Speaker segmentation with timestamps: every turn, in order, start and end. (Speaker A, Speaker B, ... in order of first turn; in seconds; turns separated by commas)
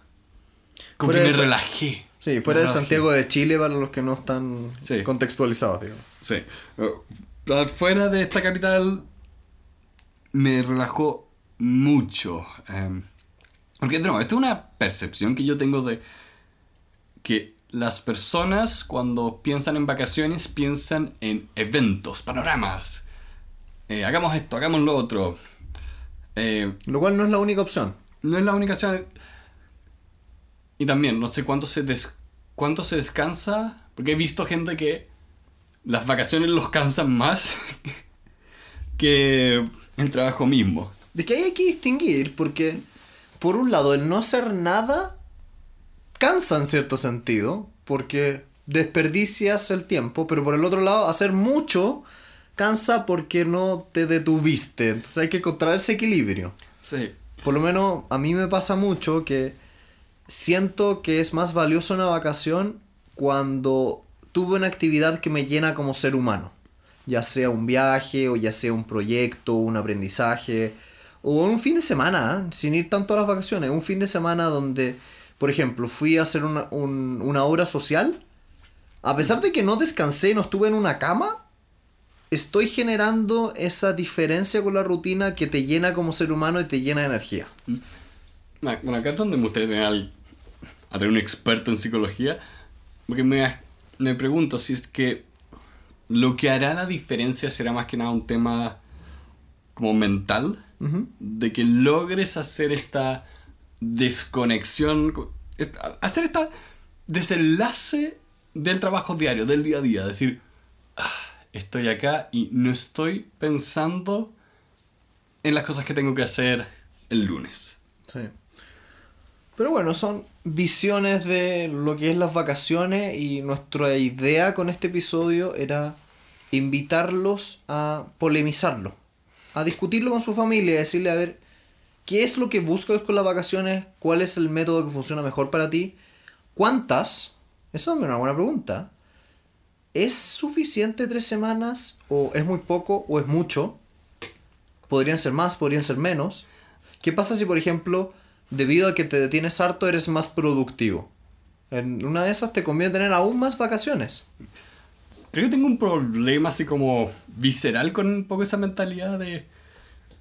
Speaker A: 1.0-3.0, Speaker B: 1.0-1.5, Speaker B: 2.2-6.0, Speaker A: 6.2-9.0, Speaker A: 10.3-13.1, Speaker A: 13.8-16.0, Speaker A: 17.2-23.1, Speaker A: 23.9-25.4, Speaker A: 26.4-26.8, Speaker B: 26.9-28.0, Speaker A: 28.2-29.1, Speaker A: 30.8-35.1, Speaker A: 35.9-38.0, Speaker A: 39.0-40.9, Speaker B: 41.1-42.8, Speaker B: 43.4-45.1, Speaker B: 46.2-52.0, Speaker B: 52.6-56.5, Speaker A: 56.8-57.2, Speaker B: 57.4-59.6, Speaker B: 60.3-66.5, Speaker B: 67.1-78.2, Speaker B: 79.0-81.4, Speaker B: 82.3-87.5, Speaker A: 88.6-90.1, Speaker A: 90.9-92.4, Speaker A: 93.1-95.3, Speaker A: 96.1-98.8, Speaker A: 99.8-100.6, Speaker B: 100.8-101.1, Speaker A: 101.2-103.2, Speaker A: 103.8-106.5, Speaker A: 107.1-110.4, Speaker A: 111.0-114.3, Speaker A: 115.4-117.8, Speaker B: 119.6-126.0, Speaker B: 126.5-129.0, Speaker B: 129.5-131.4, Speaker B: 132.1-136.0, Speaker B: 136.5-138.9, Speaker B: 139.9-143.8, Speaker B: 144.9-146.4, Speaker B: 147.0-151.1, Speaker B: 151.7-154.2, Speaker A: 155.3-159.5